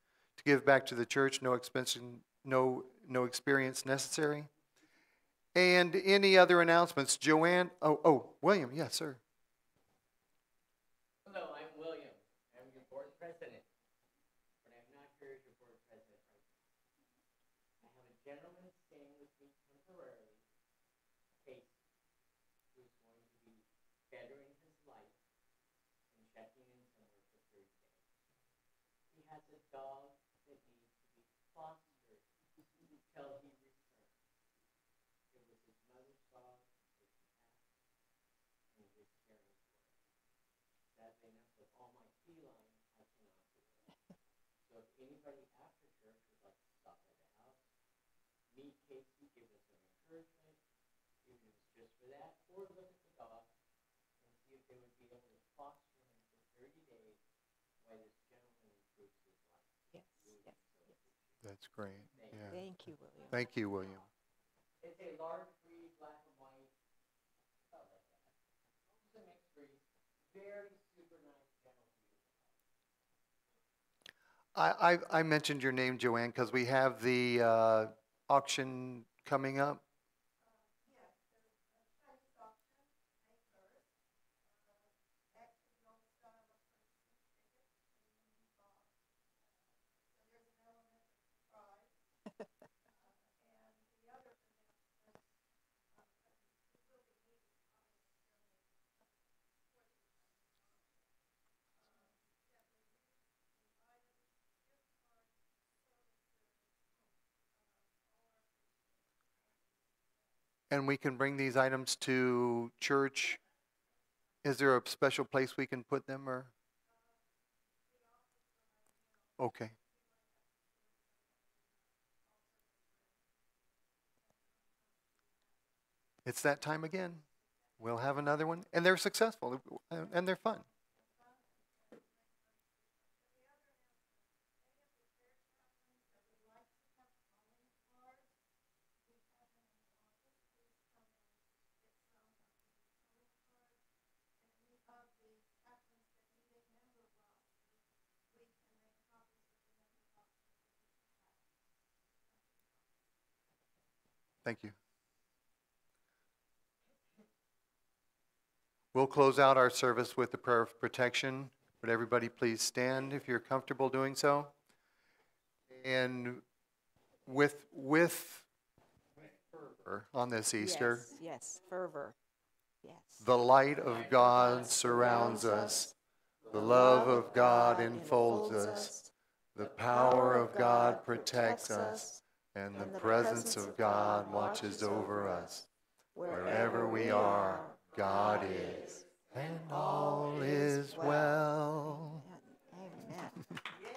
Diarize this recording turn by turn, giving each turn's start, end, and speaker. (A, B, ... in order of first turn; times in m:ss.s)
0:00.4-0:04.5 A
0:05.6-0:09.2 A
0:11.2-0:13.7 B
0:14.6-0:16.6 B
0:17.8-0:20.4 B
0:21.4-0:21.8 B
0:22.7-0:25.2 B
0:26.1-0:28.0 B
0:29.1-0:32.3 B
0:33.1-0:34.2 B
0:35.3-0:37.6 B
0:38.7-0:40.0 B
0:40.9-0:43.9 B
0:44.7-0:47.6 B
0:48.5-0:50.6 B
0:51.2-0:53.5 B
0:54.2-0:57.2 B
0:57.8-1:01.4 B
0:59.9-1:00.5 C
1:01.4-1:02.7 A
1:02.1-1:02.5 B
1:02.5-1:03.3 C
1:03.3-1:04.1 A
1:04.8-1:06.7 B
1:07.7-1:08.3 B
1:08.9-1:12.6 B
1:14.6-1:19.8 A
1:50.7-1:53.4 A
1:54.4-1:56.5 A
1:59.4-1:59.8 A
2:06.2-2:07.3 A
2:07.8-2:10.7 A
2:34.4-2:34.8 A
2:38.9-2:44.5 A
2:45.7-2:46.4 A
2:47.3-2:48.5 A
2:49.5-2:51.1 A
2:50.6-2:52.2 C
2:52.8-2:53.2 C
2:53.2-2:55.9 A
2:55.0-2:55.8 C
2:56.5-2:59.0 A
2:56.6-2:59.1 C
2:59.6-3:05.7 A
3:00.2-3:02.2 C
3:02.8-3:03.8 C
3:06.2-3:07.8 C
3:06.3-3:12.2 A
3:09.7-3:11.4 C
3:11.9-3:13.5 C